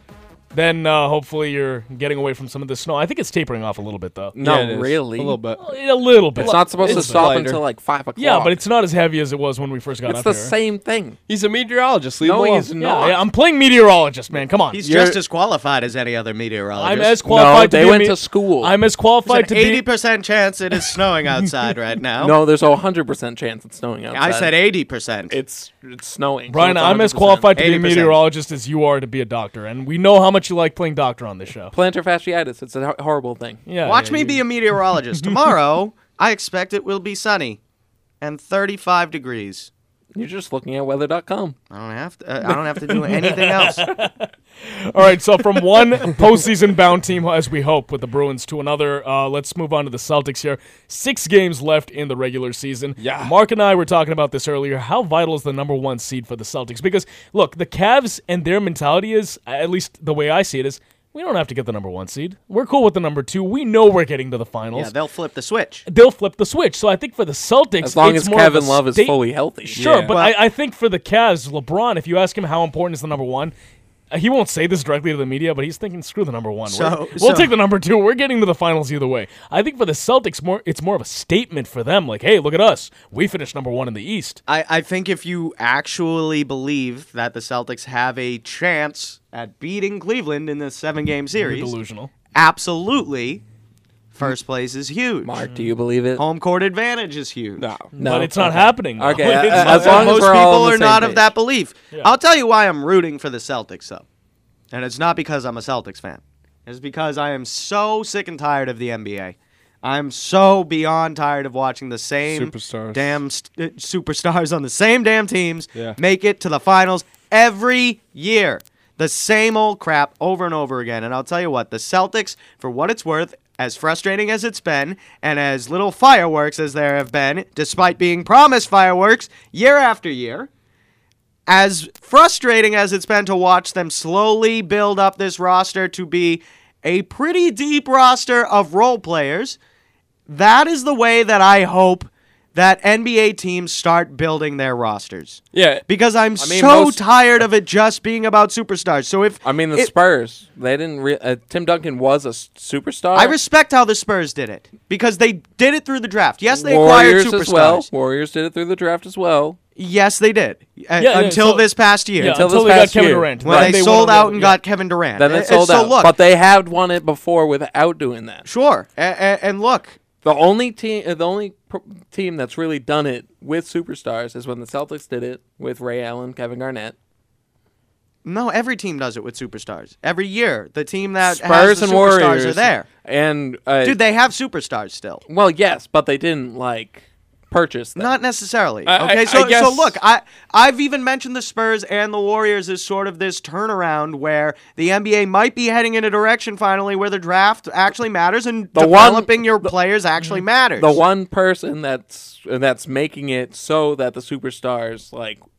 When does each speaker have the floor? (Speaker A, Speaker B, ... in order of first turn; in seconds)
Speaker A: 0.5-4.3, 5.6-7.3, 8.2-10.5, 12.8-14.8, 16.8-19.8, 26.5-31.7, 33.6-34.4, 42.9-64.9, 65.8-69.2, 69.7-73.5, 74.1-84.4, 91.4-92.1, 97.9-100.3, 161.0-164.6
Speaker B: 4.3-5.4, 6.4-8.6, 10.1-11.2, 12.2-13.2, 14.8-15.2, 17.2-18.7, 22.2-24.5, 25.3-27.5, 31.7-33.6, 40.1-41.5, 42.5-43.0, 67.8-69.8, 95.2-96.2, 98.0-101.3, 146.4-147.0, 149.4-153.4, 156.5-159.6, 162.2-163.9, 165.1-168.4, 170.2-176.9, 181.2-184.0, 185.3-188.1, 198.8-199.7, 200.8-205.4
Speaker C: 4.4-5.6, 6.4-7.6, 11.3-12.7, 53.0-53.3, 69.8-70.1, 97.6-97.9, 112.2-113.2, 145.5-145.8, 188.8-190.0
Speaker D: 14.7-17.2, 19.3-22.4, 24.1-25.4, 27.5-28.2, 33.8-37.6, 38.2-39.7, 41.7-43.9, 64.7-65.8, 69.8-70.4, 76.7-77.5, 84.5-91.7, 92.3-93.4, 94.1-95.3, 96.2-97.7, 99.5-104.0, 104.7-130.5, 131.5-139.6, 140.3-149.9, 153.1-157.9, 159.8-162.4, 163.4-166.1, 168.4-170.0, 178.2-182.8, 183.8-185.2, 188.0-201.0